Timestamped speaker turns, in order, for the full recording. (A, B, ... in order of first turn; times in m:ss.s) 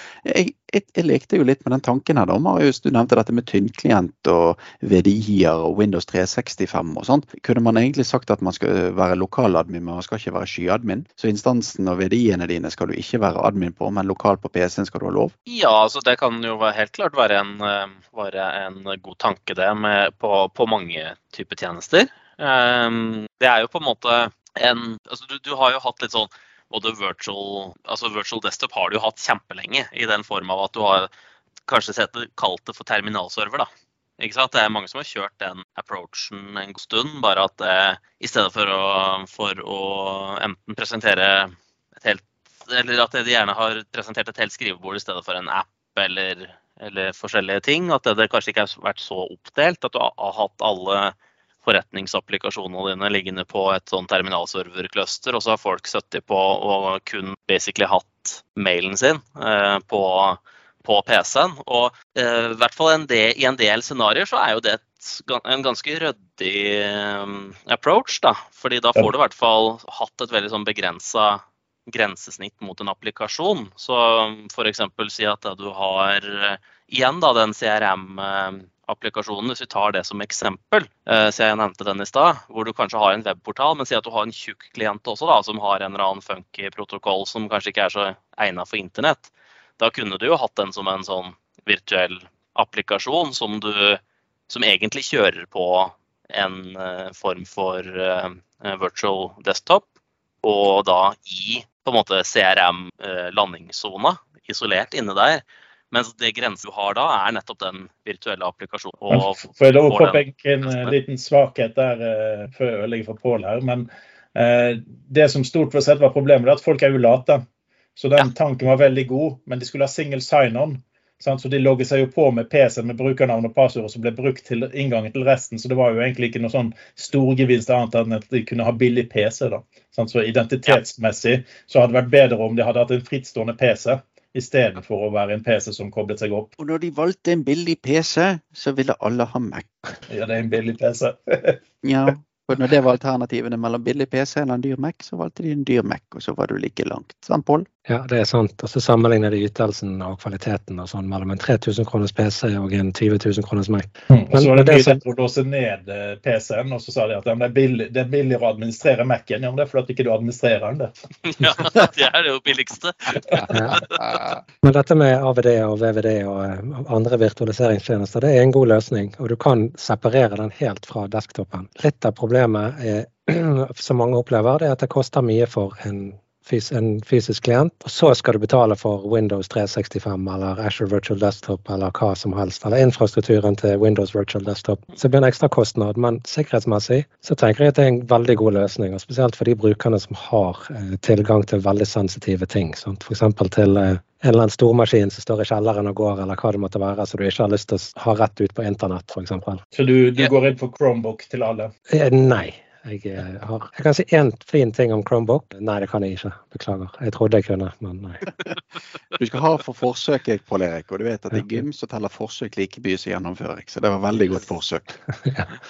0:00.2-0:15.3 A
0:15.5-0:31.1 B
0:31.7-1:39.9 B
1:40.4-1:51.0 B
1:49.1-1:57.4 C
1:58.0-2:16.5 C
2:16.6-2:19.7 A
2:20.1-2:21.6 C
2:21.8-2:27.7 A
2:27.9-2:35.0 D
2:34.1-2:40.9 C
2:41.2-2:44.2 B
2:43.5-2:43.8 D
2:44.6-3:19.6 D
3:19.7-3:21.7 C
3:21.9-3:28.2 D
3:29.2-3:35.0 A
3:31.3-3:31.6 D